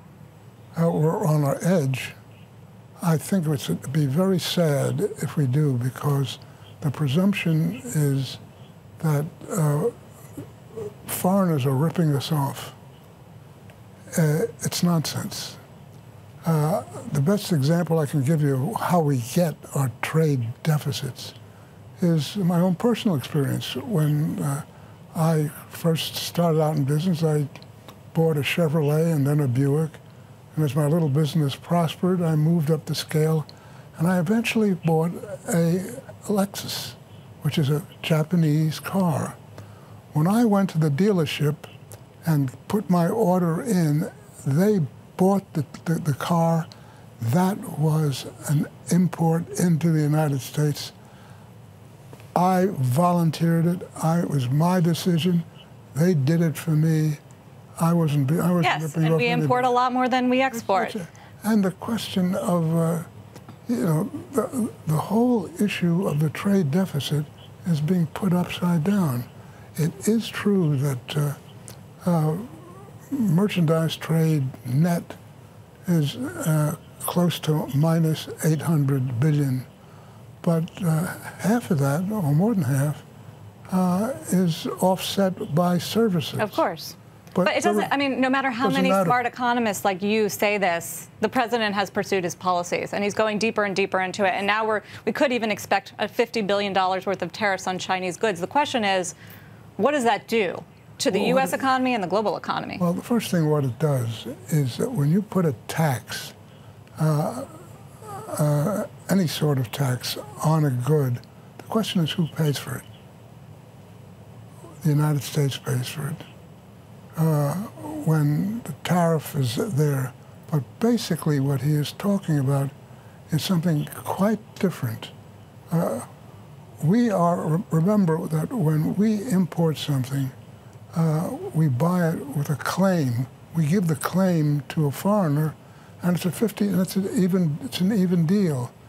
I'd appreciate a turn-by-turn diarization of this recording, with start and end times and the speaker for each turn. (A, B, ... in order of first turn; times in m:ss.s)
0:00.7-0:02.2 A
0:03.0-0:08.4 A
0:09.0-0:09.9 A
0:10.8-0:12.8 A
0:14.1-0:15.6 A
0:16.4-0:21.4 A
0:22.0-0:27.5 A
0:28.1-0:30.0 A
0:30.5-0:39.4 A
0:40.1-0:41.7 A
0:42.2-0:46.7 A
0:47.2-0:50.9 A
0:52.3-0:57.2 A
0:57.8-0:59.7 A
0:58.6-1:01.0 B
1:00.5-1:03.1 A
1:03.6-1:11.4 A
1:12.0-1:15.2 A
1:15.8-1:19.7 A
1:20.4-1:23.0 A
1:23.7-1:26.6 A
1:26.4-1:39.2 B
1:27.3-1:27.9 A
1:28.6-1:29.2 A
1:39.8-1:42.8 B
1:41.1-1:41.7 A
1:42.8-1:46.4 A
1:47.0-1:52.8 A
1:54.8-1:56.2 A
1:57.2-2:02.7 A
2:03.3-2:05.1 A
2:05.7-2:06.1 A
2:06.8-2:10.3 A
2:10.9-2:18.7 A